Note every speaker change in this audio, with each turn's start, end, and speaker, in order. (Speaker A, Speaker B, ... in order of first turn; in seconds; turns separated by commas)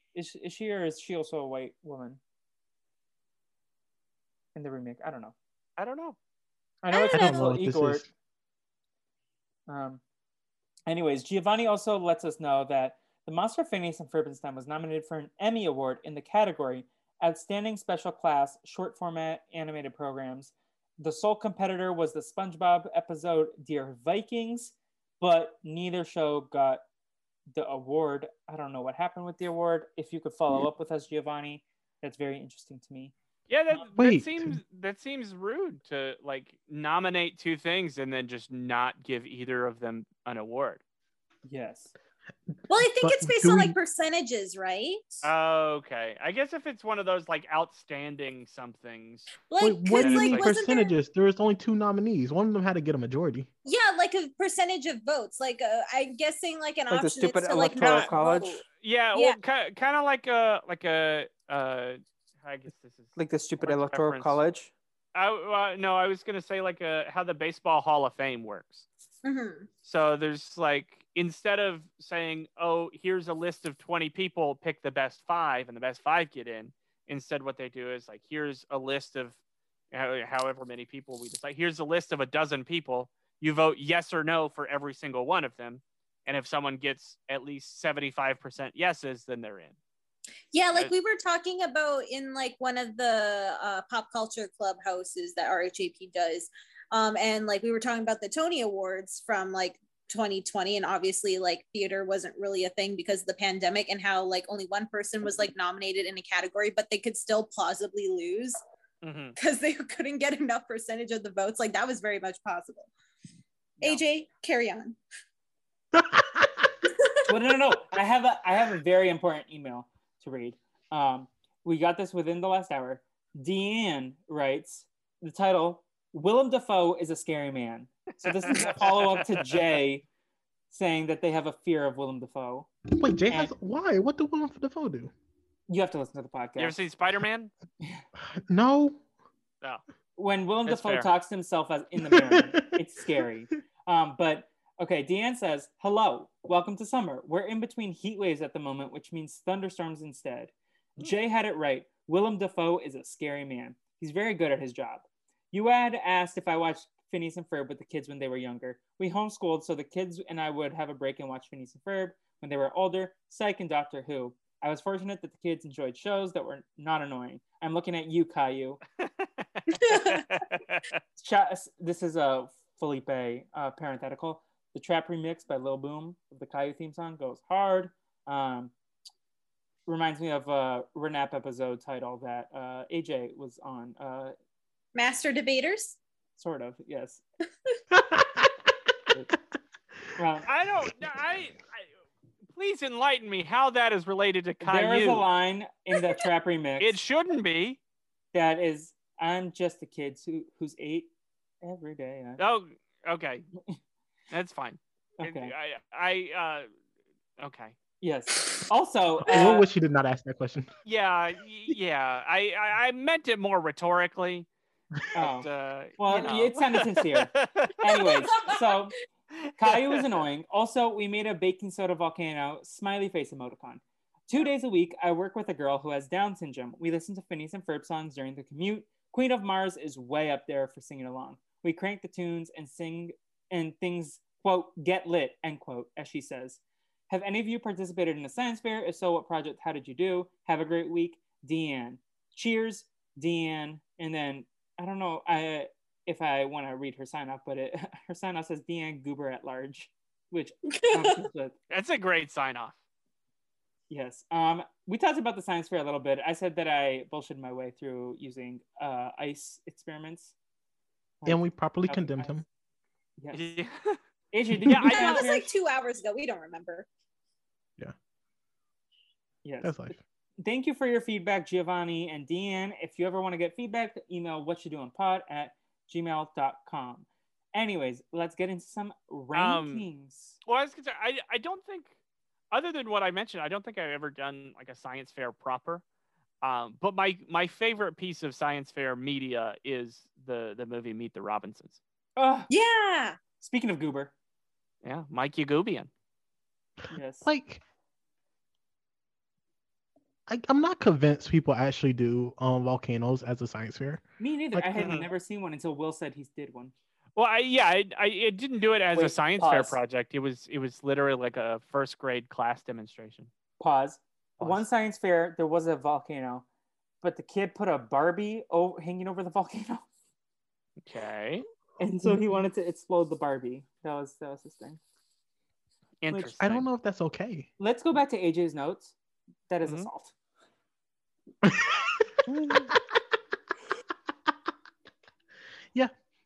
Speaker A: 0.1-2.2, Speaker A: 4.5-5.3, Speaker B: 5.8-6.2, Speaker A: 6.8-8.0, Speaker C: 6.9-7.5, Speaker D: 7.1-8.1, Speaker A: 9.7-10.0, Speaker A: 10.9-26.8, Speaker A: 27.5-33.1, Speaker B: 33.5-40.8, Speaker D: 33.9-34.6, Speaker A: 41.5-41.9, Speaker C: 42.7-45.3, Speaker D: 42.8-43.7, Speaker B: 45.2-50.5, Speaker C: 49.5-50.9, Speaker D: 49.6-53.5, Speaker C: 53.6-59.4, Speaker A: 56.9-58.6, Speaker B: 57.8-58.1, Speaker B: 58.7-64.4, Speaker A: 63.1-64.7, Speaker B: 65.1-68.9, Speaker C: 69.2-69.7, Speaker B: 69.8-79.4, Speaker B: 79.9-89.7, Speaker C: 90.5-108.6, Speaker B: 109.0-109.3, Speaker C: 109.4-112.9, Speaker C: 113.8-115.0, Speaker D: 116.0-116.6, Speaker A: 117.3-130.1, Speaker B: 128.4-129.2, Speaker A: 130.7-132.7, Speaker D: 132.9-135.1, Speaker A: 135.7-136.8, Speaker B: 136.6-137.5, Speaker D: 138.2-139.0, Speaker A: 140.2-168.8, Speaker B: 140.7-141.1, Speaker D: 142.1-142.5, Speaker B: 169.0-171.0, Speaker C: 169.7-170.4, Speaker A: 171.2-178.7, Speaker A: 179.9-184.3, Speaker C: 184.9-186.0, Speaker A: 186.4-187.2, Speaker D: 187.9-188.5, Speaker A: 190.2-190.5, Speaker B: 190.4-191.9, Speaker B: 192.5-195.2, Speaker A: 194.6-197.0, Speaker B: 196.8-197.8, Speaker A: 198.3-201.1, Speaker A: 201.6-202.4, Speaker B: 202.4-203.5, Speaker B: 204.3-206.7, Speaker A: 205.2-205.5, Speaker B: 207.4-207.8, Speaker A: 208.0-209.6, Speaker D: 209.3-210.7, Speaker B: 210.8-214.5, Speaker A: 215.1-215.5, Speaker B: 215.2-217.8, Speaker A: 216.0-218.9, Speaker C: 218.3-218.7, Speaker B: 219.4-220.0, Speaker A: 219.6-251.5, Speaker C: 250.7-251.2, Speaker B: 251.7-252.7, Speaker A: 253.9-260.3, Speaker A: 261.2-262.4, Speaker D: 261.2-262.4, Speaker A: 263.2-263.4, Speaker B: 263.3-264.0, Speaker A: 264.3-265.5, Speaker B: 264.7-265.2, Speaker C: 264.9-266.9, Speaker A: 269.4-280.4, Speaker D: 269.6-270.0, Speaker B: 279.3-279.9, Speaker B: 280.4-281.9, Speaker B: 282.5-285.8, Speaker B: 286.4-291.8, Speaker A: 292.2-292.5, Speaker C: 292.5-293.2, Speaker A: 293.4-294.1, Speaker B: 294.8-295.9, Speaker A: 296.9-297.3, Speaker D: 297.2-297.6, Speaker D: 300.3-304.0, Speaker A: 304.2-306.7, Speaker D: 304.5-304.9, Speaker B: 304.8-305.1, Speaker B: 307.1-313.3, Speaker A: 308.9-309.8, Speaker A: 313.6-316.4, Speaker B: 314.4-314.6, Speaker A: 317.0-319.9, Speaker B: 320.8-321.4, Speaker A: 321.8-324.8, Speaker B: 326.0-326.6, Speaker A: 326.1-326.3, Speaker D: 326.4-327.5, Speaker A: 327.6-328.9, Speaker A: 329.5-330.1, Speaker D: 331.4-332.2, Speaker B: 332.3-332.7